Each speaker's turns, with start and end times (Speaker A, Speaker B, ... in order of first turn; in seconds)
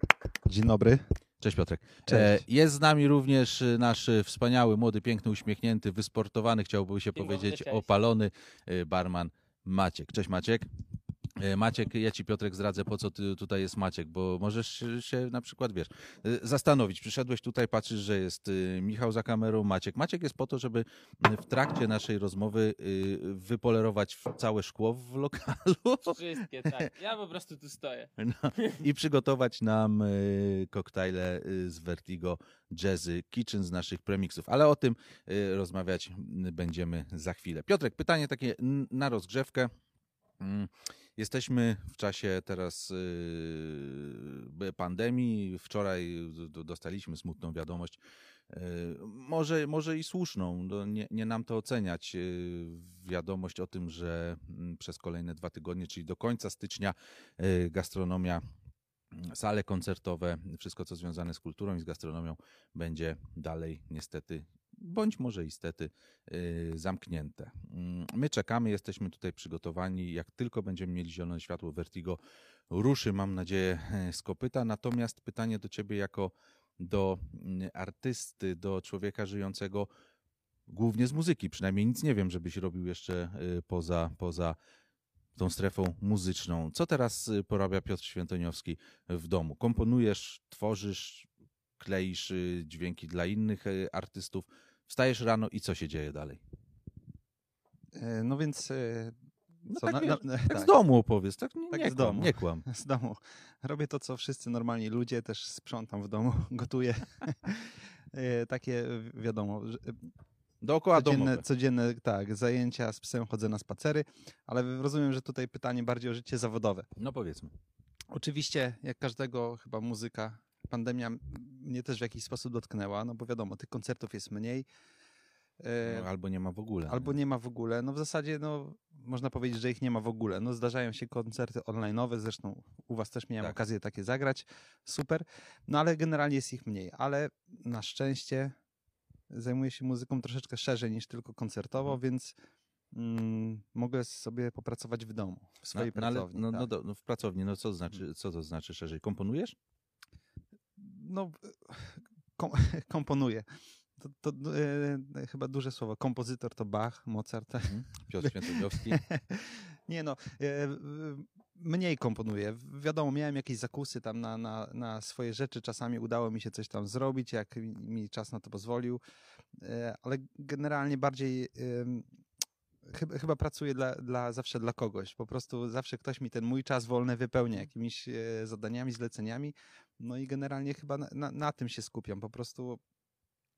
Speaker A: 0.4-1.0, 2.1-2.4, 97.9-99.2, 99.7-100.7, 101.7-110.1, 110.9-116.9, 118.1-124.7, 125.6-126.1, 126.9-138.6, 139.3-142.3, 142.9-146.7, 150.8-169.0, 169.6-172.1, 172.8-182.8
Speaker B: 1.4-10.7, 11.4-26.2, 28.2-39.7, 40.4-48.0, 48.5-58.4, 59.1-72.2, 72.7-79.9, 80.7-84.6, 85.3-91.3, 91.8-96.4, 99.7-102.6, 110.6-111.4, 117.0-117.5, 125.8-127.1, 145.7-149.6, 157.6-159.0
Speaker C: 7.1-7.9, 26.1-28.7